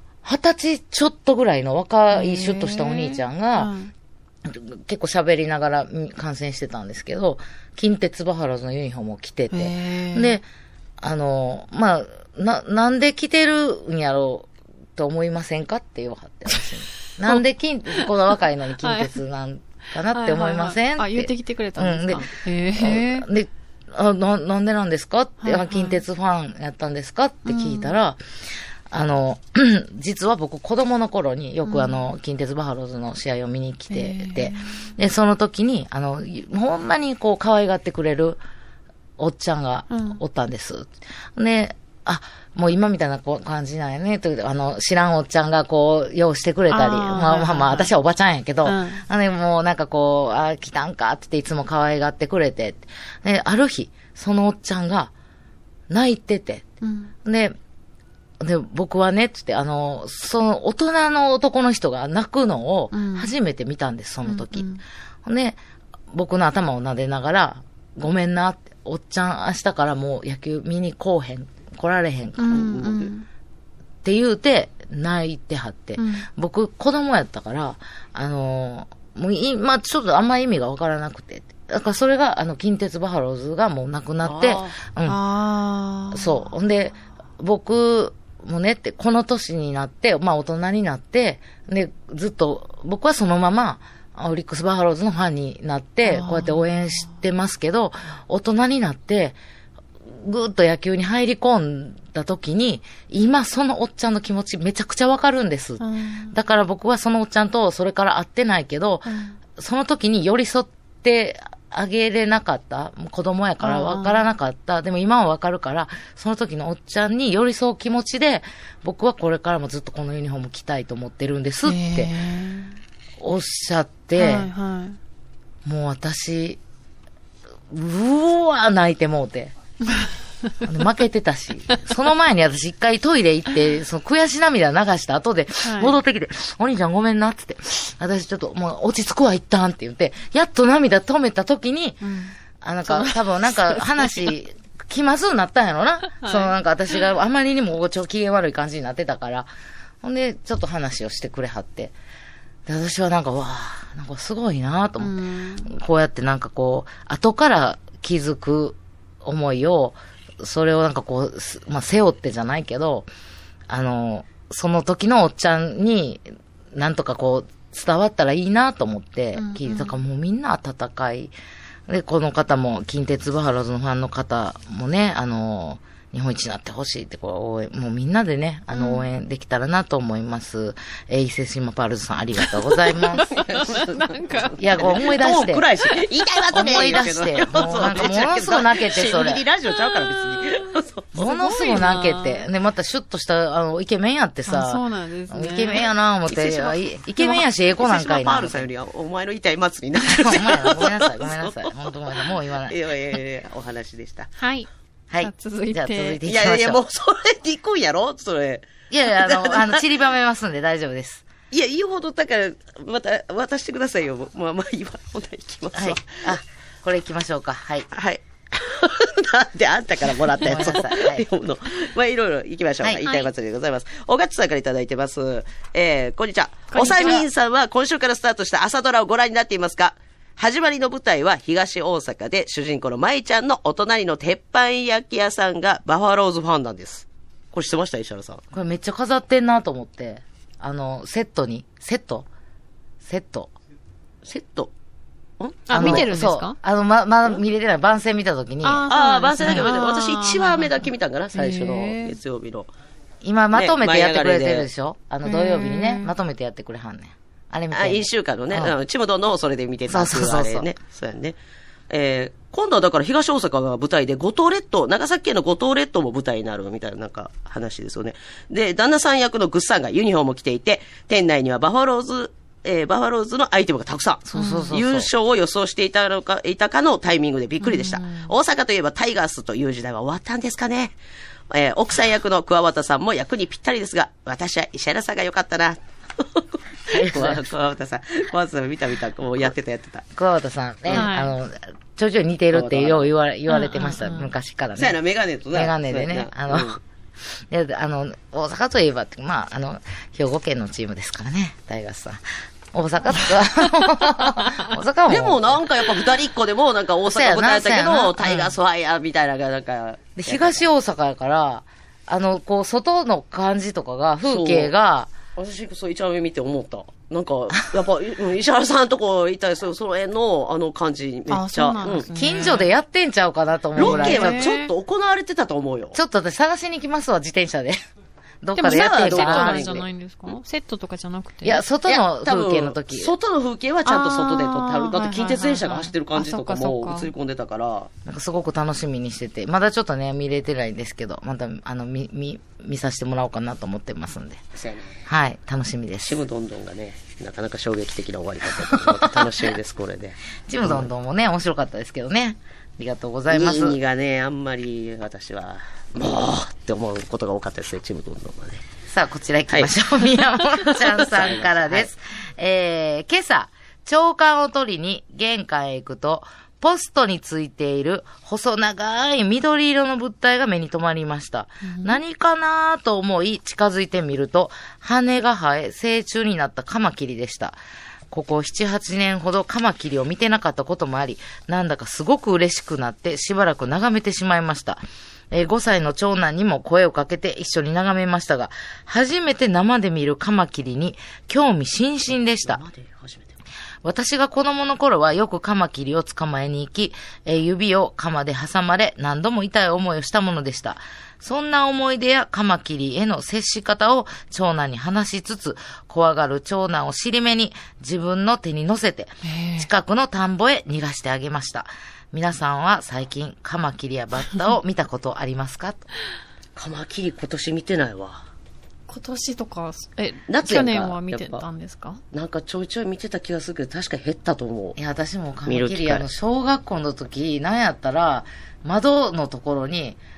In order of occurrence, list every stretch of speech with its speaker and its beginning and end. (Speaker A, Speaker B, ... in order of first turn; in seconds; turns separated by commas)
Speaker A: 0.2-3.7, Speaker B: 2.1-3.9, Speaker A: 4.5-10.4, Speaker B: 9.5-10.4, Speaker A: 11.0-28.2, Speaker B: 18.8-19.1, Speaker B: 20.1-23.3, Speaker B: 25.4-26.0, Speaker B: 27.5-28.0, Speaker A: 28.9-38.4, Speaker B: 31.7-32.0, Speaker B: 33.9-34.8, Speaker A: 39.2-55.1, Speaker B: 39.9-40.2, Speaker B: 46.7-47.9, Speaker B: 48.6-49.0, Speaker A: 55.9-56.6, Speaker B: 56.8-57.1, Speaker A: 57.2-57.6, Speaker A: 58.4-64.7, Speaker B: 62.9-63.3, Speaker B: 64.3-64.8, Speaker A: 65.2-65.6, Speaker A: 66.1-72.9, Speaker B: 72.4-73.3, Speaker C: 72.5-73.1, Speaker A: 74.0-85.2, Speaker B: 76.0-76.3, Speaker C: 84.2-84.8, Speaker B: 85.1-86.4, Speaker A: 86.1-99.4, Speaker B: 96.1-96.6, Speaker A: 100.1-122.1, Speaker B: 105.8-106.3, Speaker B: 109.0-109.4, Speaker B: 113.6-114.2, Speaker B: 121.6-122.8, Speaker A: 123.2-124.5, Speaker B: 124.2-125.0, Speaker A: 125.7-126.6, Speaker A: 127.7-129.5, Speaker A: 130.6-142.0, Speaker B: 135.6-136.0, Speaker B: 142.0-142.3, Speaker A: 142.6-149.5, Speaker B: 142.9-144.3, Speaker B: 146.2-146.5, Speaker A: 150.0-151.9, Speaker A: 152.7-163.1, Speaker B: 155.0-155.7, Speaker A: 163.7-171.3, Speaker B: 169.3-170.0, Speaker A: 171.9-183.4, Speaker B: 178.7-179.1, Speaker B: 183.1-184.6, Speaker C: 183.3-191.3, Speaker A: 184.6-185.7, Speaker A: 186.5-189.4, Speaker B: 189.9-190.6, Speaker A: 191.1-198.7, Speaker B: 191.2-192.4, Speaker B: 194.5-195.9, Speaker C: 196.3-204.3, Speaker A: 200.0-202.8, Speaker B: 204.4-204.7, Speaker A: 205.1-206.8, Speaker B: 205.2-206.2, Speaker C: 206.2-209.9, Speaker A: 208.9-211.2, Speaker C: 211.5-216.2, Speaker A: 215.7-217.9, Speaker C: 217.9-238.4, Speaker A: 220.4-221.3, Speaker B: 223.1-223.3, Speaker B: 226.7-227.2, Speaker A: 238.5-242.3, Speaker A: 243.0-243.5, Speaker C: 244.2-244.7, Speaker C: 245.4-246.1, Speaker B: 245.7-246.6, Speaker A: 245.7-248.9, Speaker B: 248.6-250.8, Speaker C: 248.9-252.7, Speaker B: 251.3-252.2, Speaker A: 253.2-258.8, Speaker C: 253.5-254.7, Speaker B: 255.2-256.1, Speaker C: 257.7-261.4, Speaker A: 259.9-260.7, Speaker C: 261.9-281.0, Speaker A: 274.3-275.1, Speaker B: 274.4-274.7, Speaker B: 277.6-278.2, Speaker C: 281.5-290.1, Speaker A: 286.9-287.4, Speaker A: 290.1-295.0, Speaker B: 290.9-291.3, Speaker C: 292.5-293.1, Speaker B: 293.5-294.3, Speaker C: 294.8-296.8, Speaker A: 295.5-296.8, Speaker A: 297.5-305.7, Speaker C: 305.1-310.7, Speaker A: 307.1-308.5, Speaker A: 310.2-315.1, Speaker C: 314.2-314.7, Speaker C: 315.4-322.1, Speaker B: 321.3-322.7, Speaker A: 322.1-324.4, Speaker C: 323.8-326.0, Speaker B: 323.8-324.7, Speaker A: 325.9-327.8, Speaker A: 328.4-329.6, Speaker B: 328.6-331.6, Speaker C: 328.6-330.4, Speaker A: 331.4-333.1, Speaker C: 331.9-337.9, Speaker B: 333.9-337.1, Speaker A: 338.1-344.4, Speaker C: 344.6-345.0, Speaker A: 345.1-346.2, Speaker C: 346.0-350.9, Speaker A: 348.6-349.3, Speaker A: 350.5-353.8, Speaker C: 353.3-358.6, Speaker A: 358.9-377.6, Speaker C: 360.6-361.9, Speaker B: 371.6-372.0, Speaker A: 378.1-392.6, Speaker C: 392.1-393.4, Speaker A: 393.8-415.9, Speaker B: 409.2-409.7, Speaker C: 416.6-418.2, Speaker B: 418.9-422.0, Speaker C: 420.3-421.4, Speaker C: 422.1-424.8, Speaker A: 424.8-430.0, Speaker C: 425.5-426.1